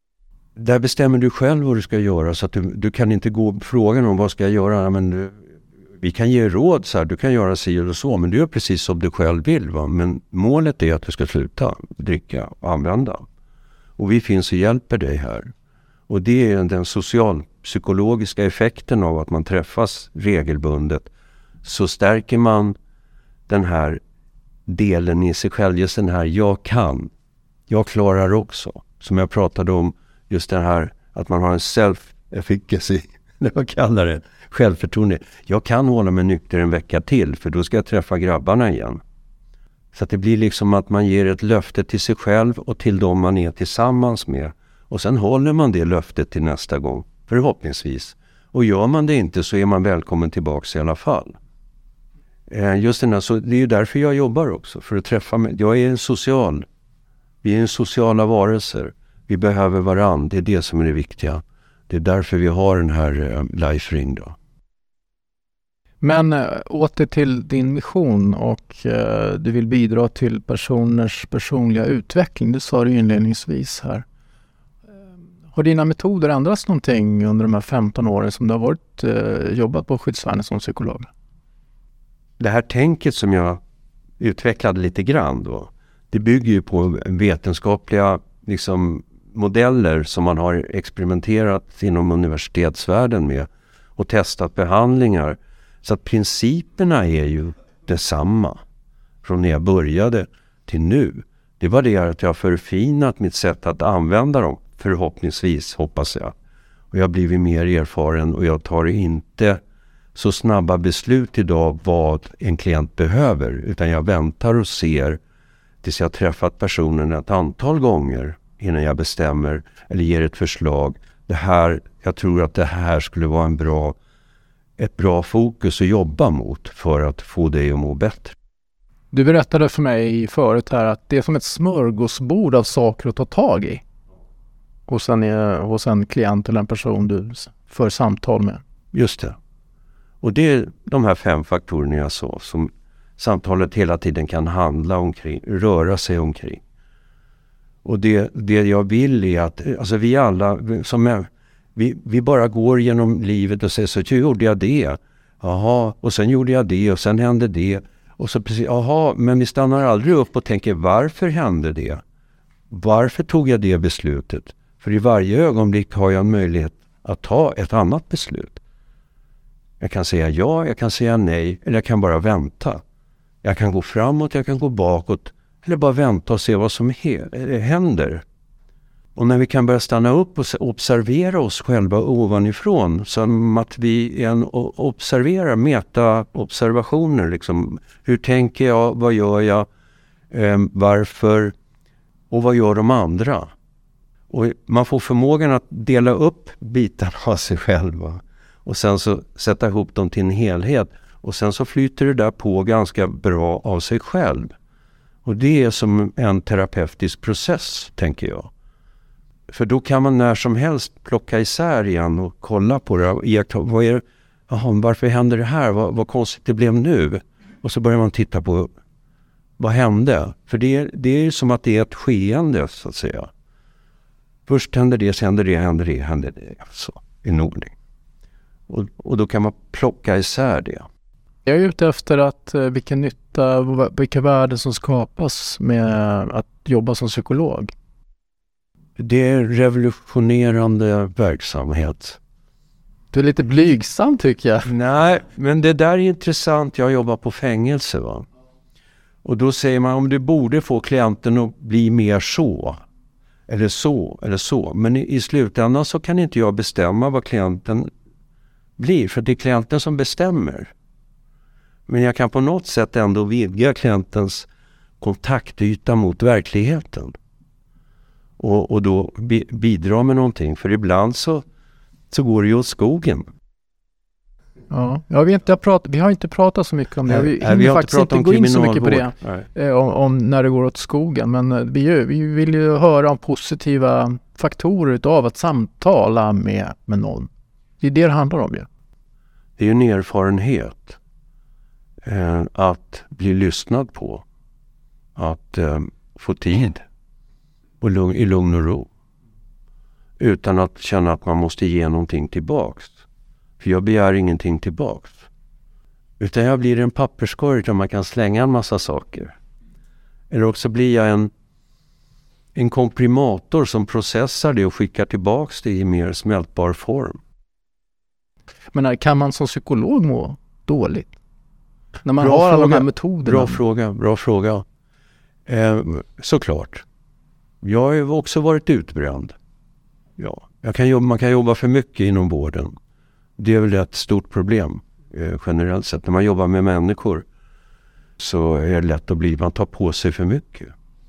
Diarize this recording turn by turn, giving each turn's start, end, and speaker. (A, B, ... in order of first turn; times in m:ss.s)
0:00.6-0:05.4 A
0:06.0-0:13.2 A
0:14.0-0:15.5 A
0:16.1-0:21.1 A
0:21.6-0:22.8 A
0:23.5-0:24.0 A
0:24.7-0:27.1 A
0:27.7-0:39.0 A
0:39.9-0:51.4 A
0:52.5-0:56.6 A
0:57.4-1:04.4 A
1:06.0-1:14.0 B
1:15.5-1:21.1 B
1:22.4-1:23.6 A
1:24.2-1:38.6 A
1:39.2-1:46.3 A
1:46.9-1:49.6 A
1:50.1-1:55.2 A
1:55.8-2:04.0 A
2:04.8-2:08.4 A
2:09.1-2:13.8 B
2:14.9-2:18.6 B
2:18.9-2:19.4 A
2:20.2-2:26.6 A
2:27.8-2:42.0 A
2:42.7-2:48.6 A
2:49.8-2:52.8 A
2:53.4-2:58.2 A
2:59.1-3:09.6 A
3:10.3-3:11.5 A
3:12.3-3:13.5 A
3:14.3-3:24.5 A
3:25.2-3:28.5 A
3:29.5-3:38.7 A
3:39.6-3:43.3 A
3:44.4-3:47.7 A
3:48.7-3:50.8 A
3:51.4-3:57.7 B
3:59.0-4:02.2 A
4:03.1-4:04.7 B
4:04.6-4:08.2 A
4:09.2-4:12.8 A
4:13.5-4:17.9 A
4:18.8-4:20.7 A
4:21.9-4:24.5 A
4:25.0-4:27.2 A
4:28.4-4:31.4 A
4:32.1-4:33.3 A
4:34.7-4:48.7 B
4:37.0-4:39.5 A
4:49.6-4:51.0 A
4:52.0-4:54.2 A
4:55.2-4:56.8 A
4:57.8-4:58.9 A
5:00.2-5:03.0 A
5:03.6-5:05.3 A
5:06.2-5:09.3 A
5:10.3-5:11.3 A
5:12.5-5:17.2 A
5:18.7-5:21.2 B
5:22.0-5:23.6 B
5:22.2-5:24.6 A
5:25.4-5:26.8 A
5:27.6-5:29.4 A
5:30.2-5:32.7 A
5:33.4-5:37.2 A
5:38.2-5:40.7 A